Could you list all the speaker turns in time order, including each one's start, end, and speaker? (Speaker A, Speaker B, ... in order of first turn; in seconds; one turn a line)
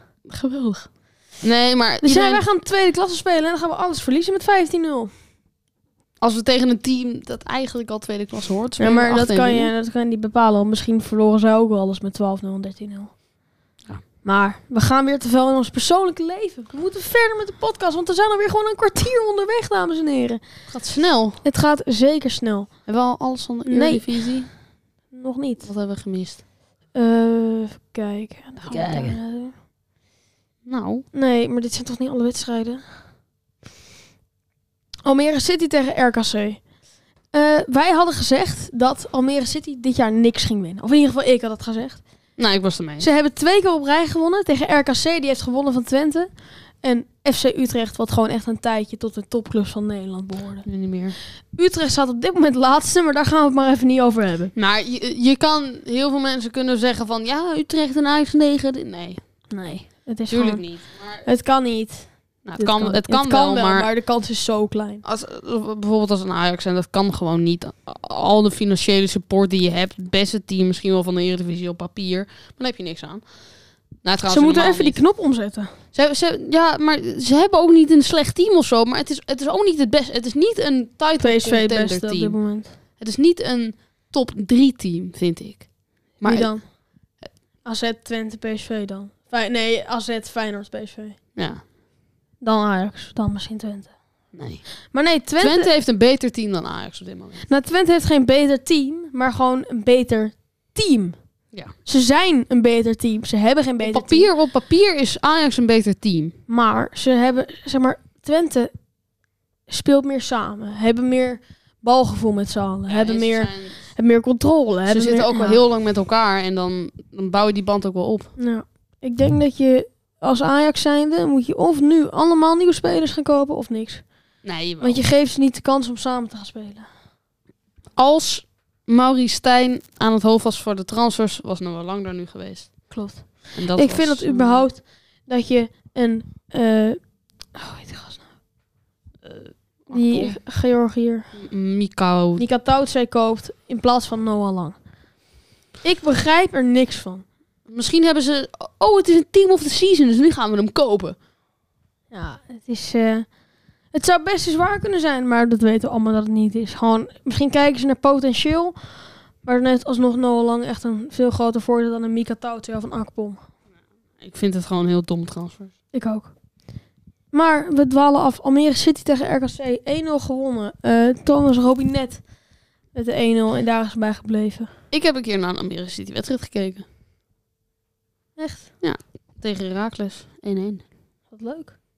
Speaker A: 0.3-2.4
Speaker B: 2.0-5.1
Speaker A: 6.2-9.7
Speaker B: 8.8-13.2
Speaker B: 14.2-20.4
Speaker A: 20.7-21.4
Speaker B: 21.4-22.8
Speaker A: 22.9-24.5
Speaker B: 23.6-24.5
Speaker B: 25.1-25.7
Speaker A: 25.6-26.4
Speaker B: 26.9-29.6
Speaker A: 28.6-29.2
Speaker A: 30.6-31.1
Speaker B: 31.1-32.8
Speaker B: 35.0-36.7
Speaker B: 37.3-42.4
Speaker A: 42.4-43.1
Speaker B: 43.0-54.5
Speaker A: 50.6-51.2
Speaker A: 54.5-59.5
Speaker B: 59.5-65.0
Speaker A: 60.3-61.2
Speaker A: 62.4-63.9
Speaker A: 65.0-75.0
Speaker B: 74.3-75.7
Speaker A: 75.9-86.5
Speaker B: 81.2-82.8
Speaker B: 86.2-86.8
Speaker B: 87.6-91.2
Speaker A: 91.3-91.6
Speaker B: 92.4-94.3
Speaker A: 94.3-97.4
Speaker B: 94.9-95.7
Speaker B: 97.4-101.2
Speaker B: 101.7-104.3
Speaker A: 103.8-106.3
Speaker B: 106.5-108.7
Speaker B: 109.7-115.6
Speaker A: 112.9-113.8
Speaker A: 114.9-118.3
Speaker B: 118.4-126.9
Speaker A: 124.4-125.0
Speaker A: 128.0-134.7
Speaker B: 132.9-138.3
Speaker A: 139.2-140.4
Speaker B: 139.9-141.3
Speaker A: 141.3-142.4
Speaker B: 142.4-144.8
Speaker B: 145.8-147.2
Speaker A: 147.7-151.2
Speaker B: 152.1-153.3
Speaker B: 153.9-163.4
Speaker A: 164.2-165.7
Speaker B: 165.9-166.3
Speaker B: 167.3-172.3
Speaker B: 172.9-174.7
Speaker A: 174.9-176.8
Speaker B: 178.4-178.7
Speaker A: 178.8-180.8
Speaker B: 181.3-181.8